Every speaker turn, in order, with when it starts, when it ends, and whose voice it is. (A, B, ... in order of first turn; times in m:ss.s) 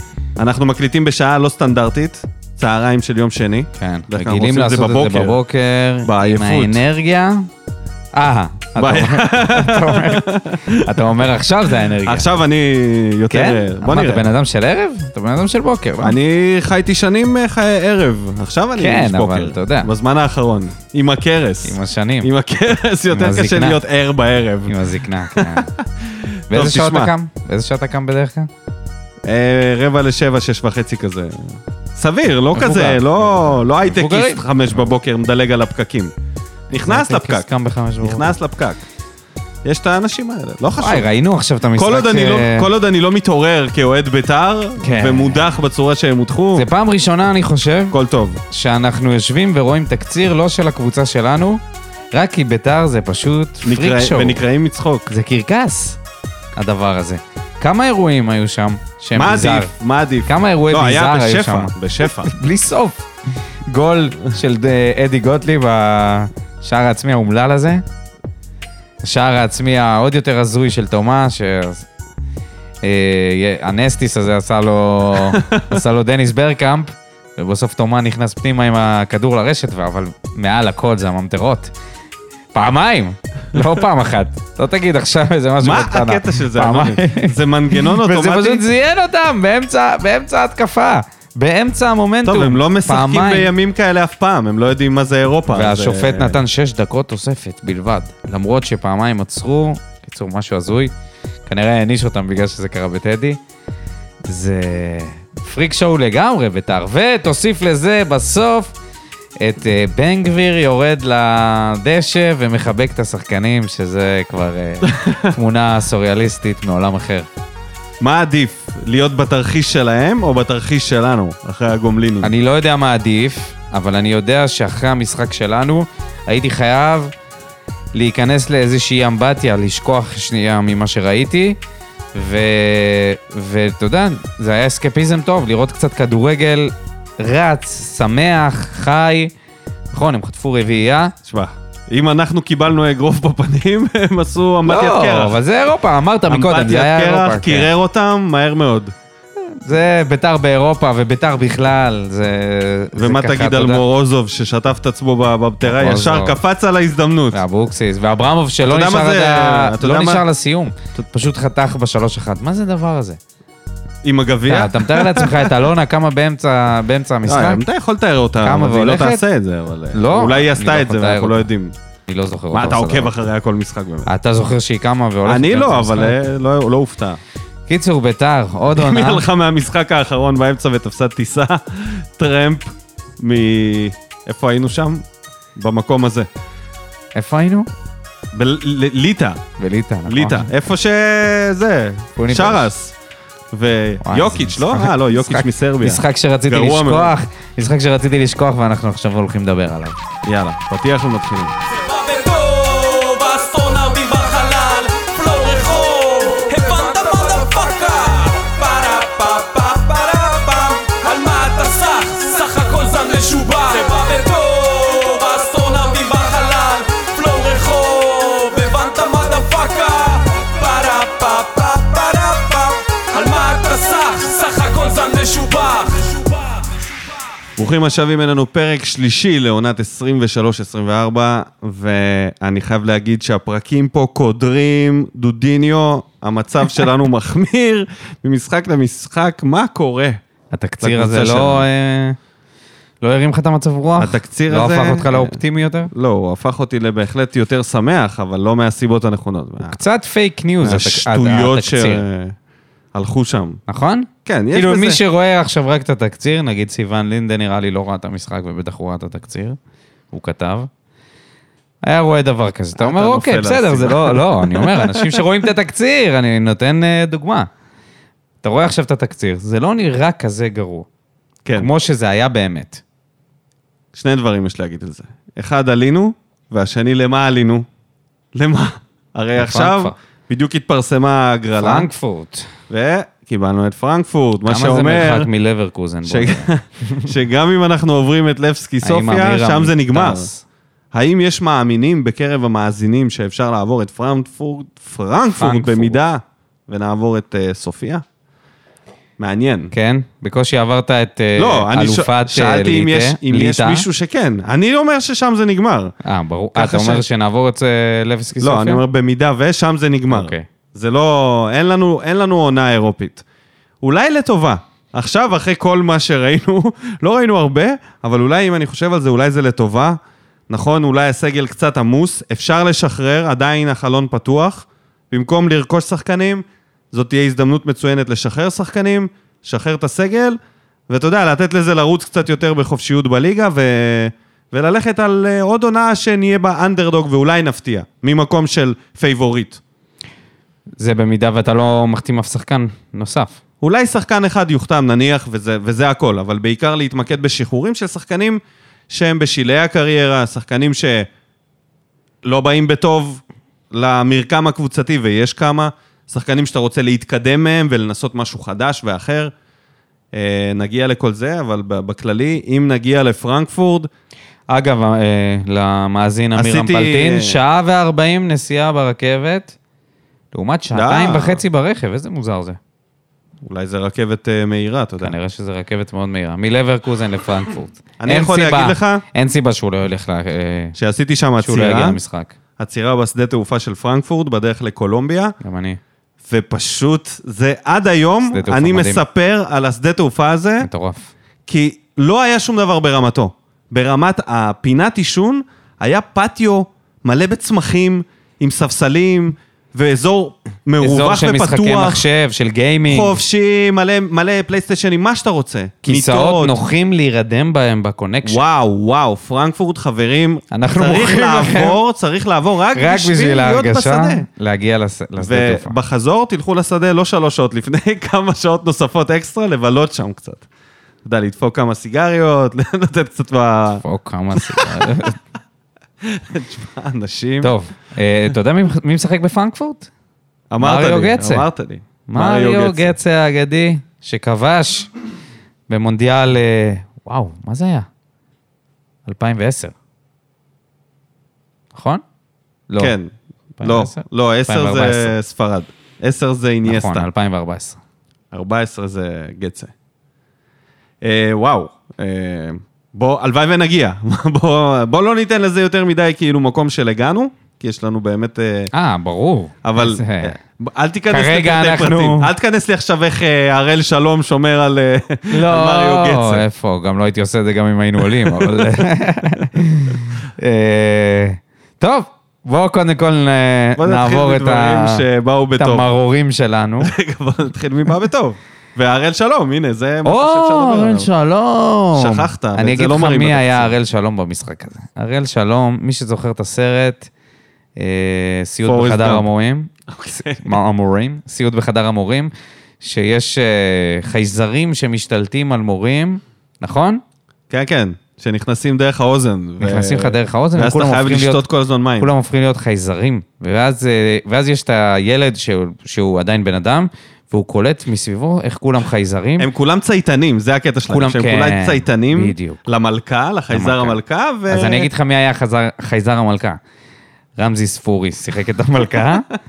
0:00.4-0:05.4 A
0:03.8-0:07.5 B
0:06.0-0:06.8 A
0:08.1-0:12.3 B
0:08.8-0:11.1 A
0:12.0-0:14.2 A
0:13.3-0:16.2 B
0:16.0-0:24.8 A
0:18.8-0:19.9 B
0:21.6-0:22.3 B
0:23.1-0:23.8 B
0:24.7-0:25.7 B
0:25.4-0:27.1 A
0:26.5-0:28.5 B
0:29.3-0:36.1 A
0:32.5-0:34.4 B
0:36.7-0:37.5 A
0:36.7-0:38.4 B
0:38.0-0:38.8 A
0:39.6-0:41.1 A
0:40.8-0:42.7 B
0:41.8-0:46.7 A
0:44.8-0:45.4 B
0:46.6-0:48.0 B
0:47.9-0:48.4 A
0:48.5-0:51.6 B
0:52.1-0:54.4 B
0:53.6-0:55.1 A
0:55.1-0:56.0 B
0:56.6-0:59.7 B
0:59.2-1:02.3 A
1:00.3-1:03.1 B
1:03.7-1:07.8 B
1:09.0-1:11.9 B
1:12.8-1:21.7 B
1:15.3-1:15.8 A
1:22.5-1:33.5 B
1:25.6-1:28.6 A
1:32.2-1:36.4 A
1:35.5-1:40.9 B
1:41.5-1:43.4 B
1:44.3-1:48.8 B
1:49.4-1:57.3 B
1:54.8-1:55.3 A
1:58.0-2:02.3 A
2:02.2-2:07.1 B
2:07.9-2:11.6 B
2:12.1-2:19.3 B
2:19.9-2:21.2 B
2:21.2-2:25.4 A
2:24.6-2:27.7 B
2:26.3-2:28.9 A
2:29.6-2:33.8 B
2:33.0-2:37.4 A
2:35.6-2:36.4 B
2:37.3-2:43.2 B
2:38.7-2:40.2 A
2:44.0-2:45.5 A
2:44.5-2:47.6 B
2:47.3-2:51.7 A
2:48.4-2:49.2 B
2:49.9-2:51.5 B
2:52.1-2:53.1 B
2:52.5-2:54.1 A
2:54.1-2:56.2 B
2:55.3-2:57.2 A
2:57.7-2:59.2 B
2:58.7-3:02.7 A
3:03.2-3:05.0 A
3:05.6-3:06.3 A
3:07.2-3:07.7 B
3:08.3-3:09.4 A
3:09.6-3:10.5 B
3:10.1-3:13.0 A
3:12.2-3:12.7 B
3:13.5-3:17.2 A
3:14.0-3:20.0 B
3:20.2-3:21.6 A
3:21.7-3:46.4 C
3:47.6-4:00.2 A
4:00.5-4:02.2 B
4:00.8-4:01.7 A
4:03.0-4:05.9 B
4:04.0-4:05.4 A
4:05.9-4:09.8 A
4:09.6-4:12.0 B
4:10.6-4:12.4 A
4:12.9-4:13.6 A
4:13.7-4:19.6 B
4:14.2-4:15.0 A
4:20.1-4:20.7 B
4:21.8-4:27.5 B
4:22.8-4:25.2 A
4:28.4-4:30.9 B
4:31.6-4:32.8 B
4:33.9-4:37.7 A
4:38.3-4:41.9 A
4:39.4-4:40.0 B
4:41.6-4:42.5 B
4:42.7-4:45.3 A
4:44.5-4:46.5 B
4:46.0-4:50.3 A
4:48.8-4:50.4 B
4:50.9-4:58.0 A
4:55.3-4:56.0 B
4:59.2-4:59.7 A
4:59.7-5:03.9 B
5:01.4-5:06.0 A
5:06.0-5:08.8 B
5:06.6-5:07.0 A
5:08.4-5:13.2 A
5:10.1-5:10.5 B
5:13.8-5:20.0 A
5:20.5-5:30.4 A
5:30.9-5:39.6 A
5:40.8-5:43.4 B
5:43.6-5:51.1 A
5:52.2-5:59.3 A
6:00.1-6:03.9 A
6:04.5-6:09.6 B
6:06.4-6:07.4 A
6:10.3-6:12.6 B
6:10.7-6:11.4 A
6:13.4-6:15.1 A
6:15.0-6:20.8 B
6:18.0-6:19.0 A
6:20.8-6:22.0 A
6:21.4-6:22.4 B
6:22.6-6:25.4 A
6:25.4-6:25.8 B
6:26.3-6:30.7 A
6:28.3-6:29.0 B
6:30.6-6:31.1 B
6:31.5-6:42.0 A
6:40.8-6:43.2 B
6:42.9-6:46.6 A
6:45.8-6:48.4 B
6:48.2-6:54.3 A
6:50.5-6:51.8 B
6:52.8-6:55.8 B
6:55.2-7:00.4 A
7:01.0-7:03.8 A
7:03.8-7:05.2 B
7:04.3-7:05.0 A
7:06.0-7:07.5 A
7:07.4-7:09.9 B
7:10.5-7:13.0 A
7:10.6-7:11.5 B
7:12.1-7:14.9 B
7:15.7-7:17.9 B
7:19.1-7:19.8 B
7:21.7-7:22.0 B
7:22.7-7:23.0 B
7:22.8-7:27.1 A
7:23.6-7:25.2 B
7:26.6-7:27.8 B
7:28.3-7:29.7 A
7:31.0-7:38.7 A
7:38.7-7:40.4 B
7:39.6-7:46.4 A
7:41.1-7:42.3 B
7:45.3-7:55.0 B
7:48.0-7:48.8 A
7:53.8-7:55.9 A
7:55.6-7:56.9 B
7:56.8-8:01.1 A
8:00.0-8:07.1 B
8:02.0-8:03.8 A
8:07.8-8:17.0 B
8:08.7-8:09.3 A
8:09.9-8:10.6 A
8:17.5-8:22.1 A
8:19.6-8:21.4 B
8:22.0-8:29.5 B
8:29.4-8:34.9 A
8:30.9-8:32.7 B
8:33.5-8:34.0 B
8:34.5-8:36.6 B
8:37.4-8:39.3 B